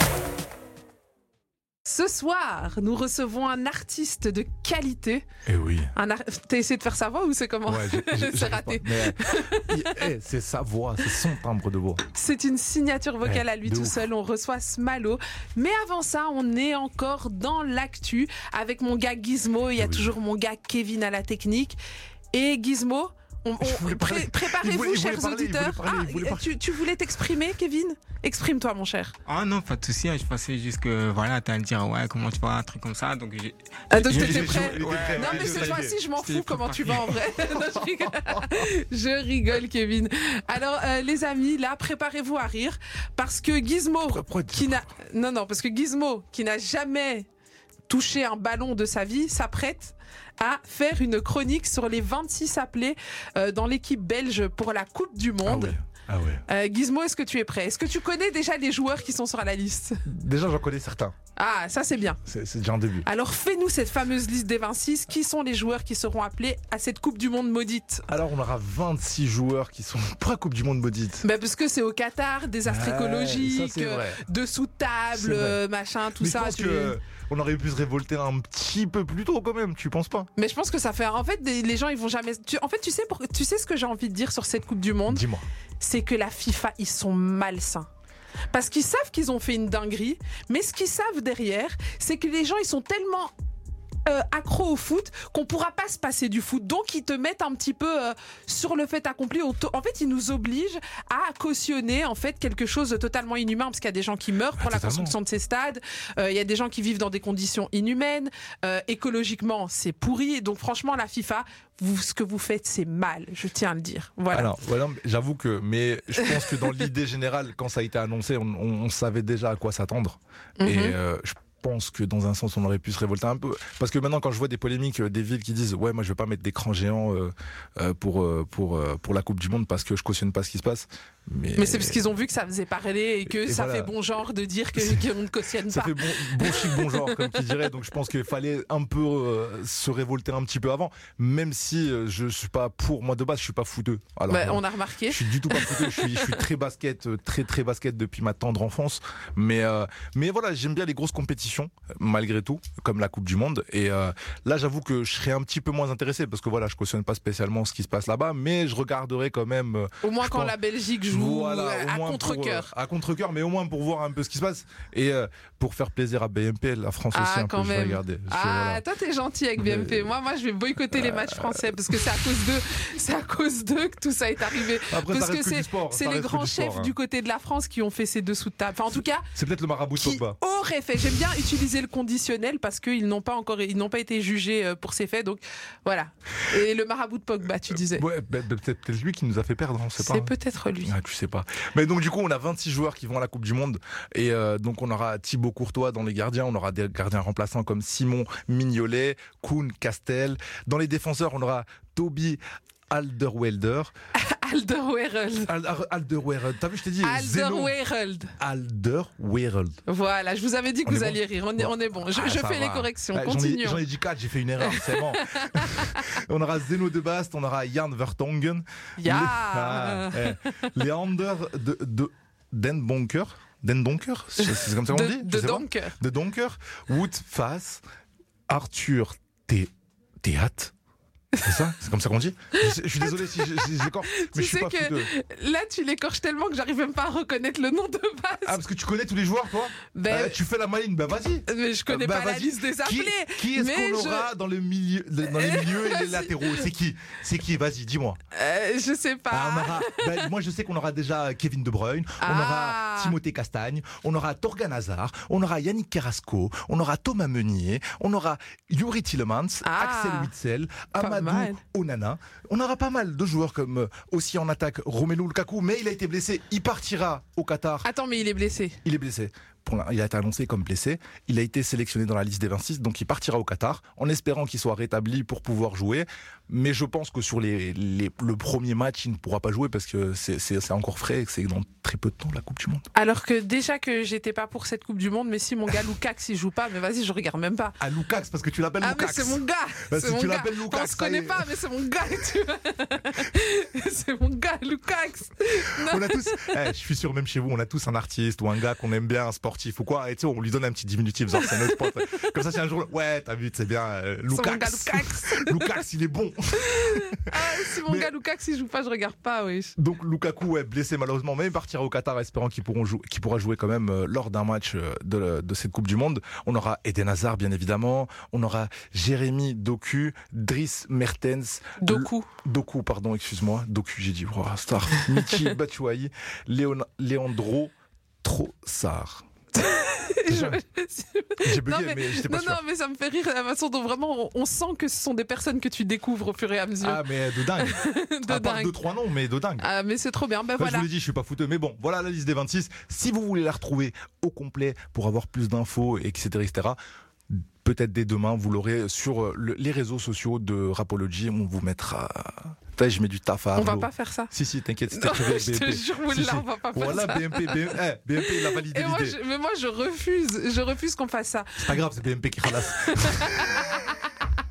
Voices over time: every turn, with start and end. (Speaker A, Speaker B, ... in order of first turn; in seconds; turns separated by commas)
Speaker A: 1.8-5.2, Speaker B: 5.5-5.9, Speaker A: 5.9-10.1, Speaker B: 7.7-12.0, Speaker A: 12.1-21.8, Speaker B: 13.2-14.0, Speaker B: 19.8-20.1, Speaker A: 22.3-29.1, Speaker B: 23.6-26.6, Speaker C: 29.2-37.2, Speaker A: 33.9-47.3, Speaker B: 34.0-36.0, Speaker B: 37.2-38.5, Speaker B: 44.1-44.8, Speaker A: 47.9-55.8, Speaker B: 55.4-56.4, Speaker A: 56.5-60.0, Speaker B: 60.0-61.1, Speaker A: 61.4-62.2, Speaker B: 62.2-63.1, Speaker A: 63.0-68.0, Speaker B: 68.1-71.2, Speaker A: 71.2-77.0, Speaker B: 72.6-74.2, Speaker B: 75.1-75.6, Speaker B: 76.2-80.3, Speaker A: 80.3-85.2, Speaker B: 85.1-85.5, Speaker A: 85.8-87.9, Speaker A: 88.5-93.3, Speaker A: 94.0-114.5, Speaker B: 104.5-105.2, Speaker B: 114.3-132.0, Speaker A: 116.2-116.5, Speaker A: 120.6-121.0, Speaker A: 131.6-137.6, Speaker B: 133.2-133.9, Speaker B: 134.8-135.1, Speaker B: 135.7-160.6, Speaker A: 144.3-146.4, Speaker A: 160.0-162.7, Speaker B: 161.1-168.8, Speaker A: 167.1-179.2, Speaker B: 169.6-170.1, Speaker B: 170.9-171.8, Speaker B: 174.9-176.9, Speaker B: 179.3-180.4, Speaker A: 179.9-188.0, Speaker B: 187.9-190.3, Speaker A: 190.0-190.9, Speaker B: 190.8-203.9, Speaker A: 204.2-205.5, Speaker B: 205.5-207.8, Speaker A: 207.0-208.3, Speaker B: 208.4-209.8, Speaker A: 209.9-213.9, Speaker B: 210.8-227.8, Speaker A: 214.6-216.2, Speaker A: 219.0-220.7, Speaker A: 224.4-225.9, Speaker B: 228.5-229.7, Speaker B: 230.2-230.7, Speaker A: 231.3-231.7, Speaker B: 231.4-235.1, Speaker A: 232.6-238.6, Speaker B: 238.4-248.2, Speaker A: 239.9-240.4, Speaker A: 241.5-244.3, Speaker A: 245.2-246.7, Speaker A: 248.3-250.3, Speaker B: 249.3-267.9, Speaker A: 252.2-253.2, Speaker A: 259.6-260.3, Speaker A: 261.0-261.6, Speaker A: 267.8-268.8, Speaker B: 268.8-282.9, Speaker A: 282.9-287.8, Speaker B: 287.8-291.5, Speaker A: 288.8-296.6, Speaker B: 295.8-308.1, Speaker A: 301.4-302.3, Speaker A: 304.3-305.8, Speaker A: 306.7-309.7, Speaker B: 309.8-329.2, Speaker A: 321.8-322.3, Speaker A: 325.1-325.5, Speaker A: 329.5-338.8, Speaker B: 330.3-330.6, Speaker B: 331.4-332.6, Speaker B: 336.8-339.7, Speaker A: 339.6-340.9, Speaker B: 340.6-346.8, Speaker B: 347.3-359.2, Speaker A: 353.6-354.3, Speaker A: 354.9-361.8, Speaker B: 361.6-363.5, Speaker A: 362.6-364.0